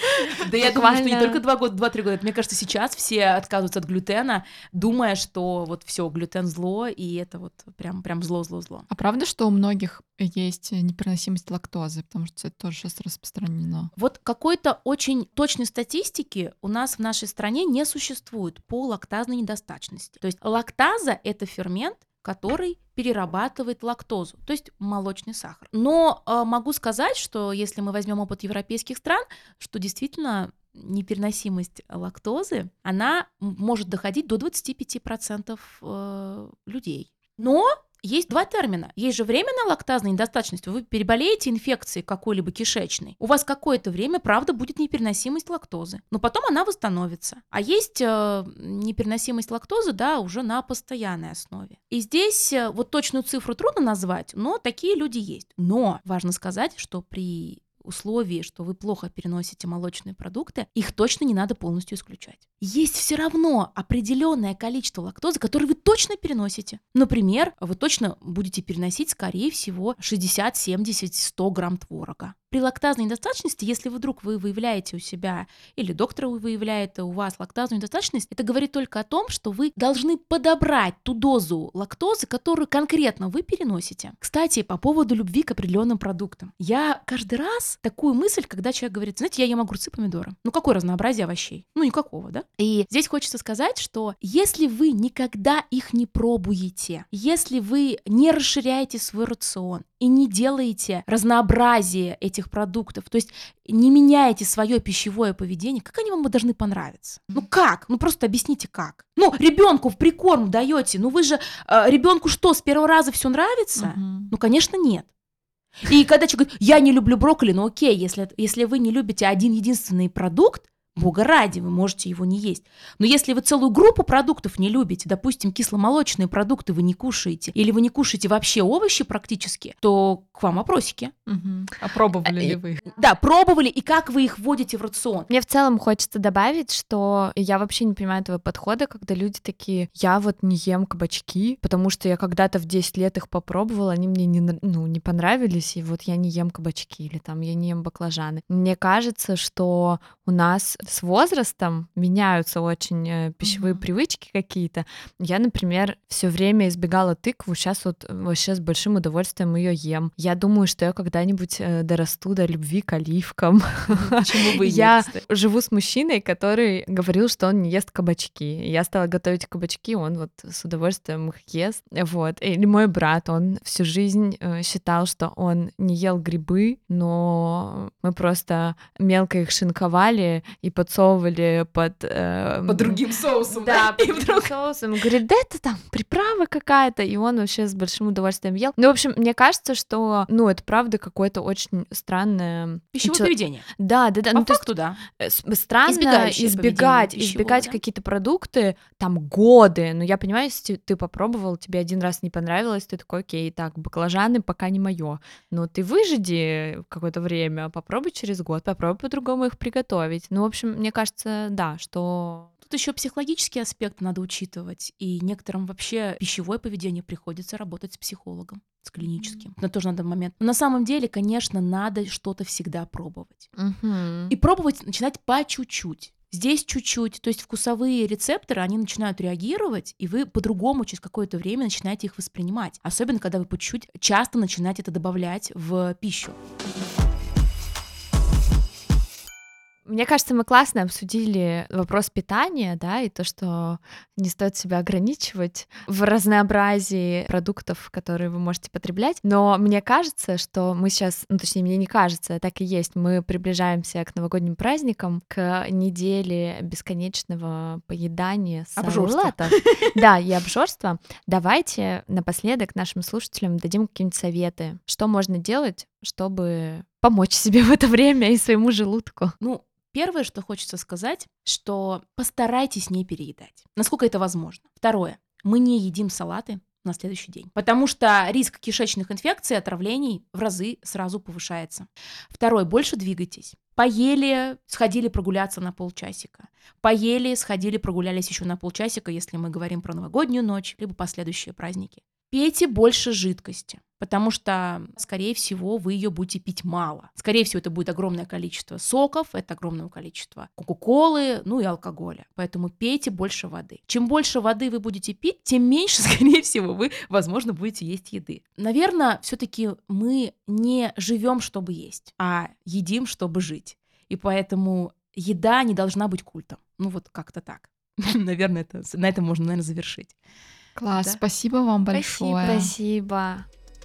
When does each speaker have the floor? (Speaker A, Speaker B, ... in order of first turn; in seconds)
Speaker A: 0.3-8.9, 13.9-115.1, 115.8-131.1, 132.4-135.3, 163.9-165.2, 182.7-184.5, 192.9-193.7, 194.3-195.0, 195.9-197.8, 212.7-223.5, 224.3-236.4, 258.8-259.9, 269.4-320.2, 320.9-321.2
Speaker B: 0.5-1.4, 135.3-212.5, 223.6-224.3, 239.9-269.4, 321.9-323.4
Speaker C: 8.9-13.9, 113.8-114.3, 131.3-132.8, 153.4-153.8, 320.8-322.7